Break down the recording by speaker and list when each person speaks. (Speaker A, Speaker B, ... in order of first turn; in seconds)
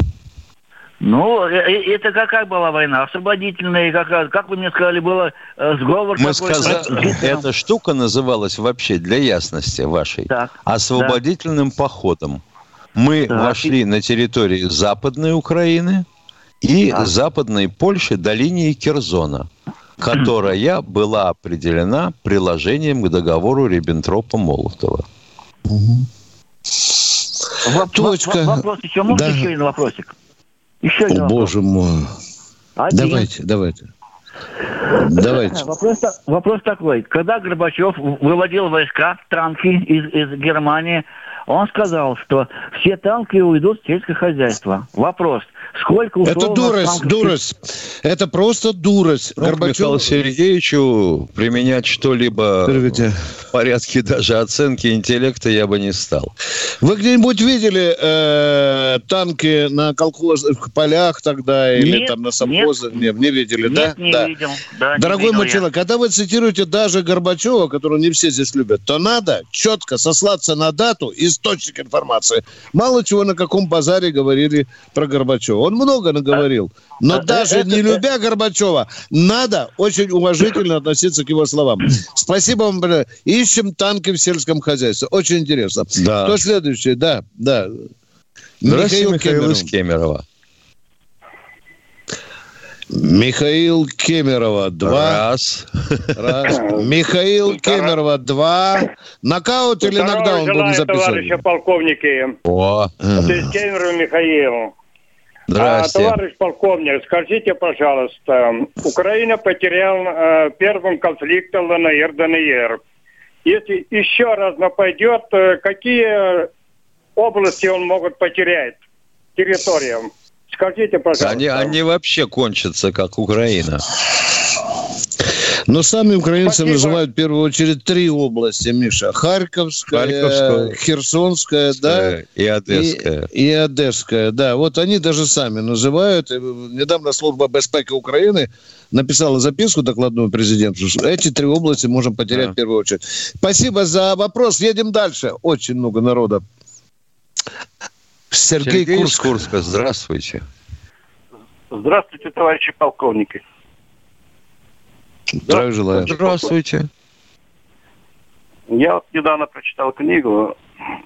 Speaker A: 1.0-7.5, 10.3-11.2, 13.3-13.7, 27.6-30.1, 30.8-31.5, 32.8-33.3, 35.2-47.3, 61.7-63.0, 63.6-65.7, 77.1-78.0
Speaker B: 6.2-12.4, 12.9-16.0, 16.6-19.5, 20.0-25.0, 49.4-56.3, 86.0-86.4, 88.7-90.2, 94.8-96.1, 102.5-102.9, 105.5-106.2, 121.2-123.8, 129.9-130.8, 131.8-133.3, 148.6-150.4, 155.5-156.9
Speaker C: 25.7-26.1, 27.9-29.5, 31.1-32.1, 32.9-33.9, 35.0-35.6, 46.2-50.0, 52.7-53.1, 56.8-64.3, 65.0-87.7, 88.6-89.7, 92.9-95.2, 96.2-101.4, 103.0-103.3, 125.7-132.1, 132.7-146.4, 148.3-149.4, 155.4-156.1
Speaker D: 99.8-102.3, 103.2-104.7, 105.6-112.8, 113.4-116.5, 117.2-118.8, 119.3-121.7, 126.4-127.0
Speaker E: 151.7-153.4, 158.7-160.6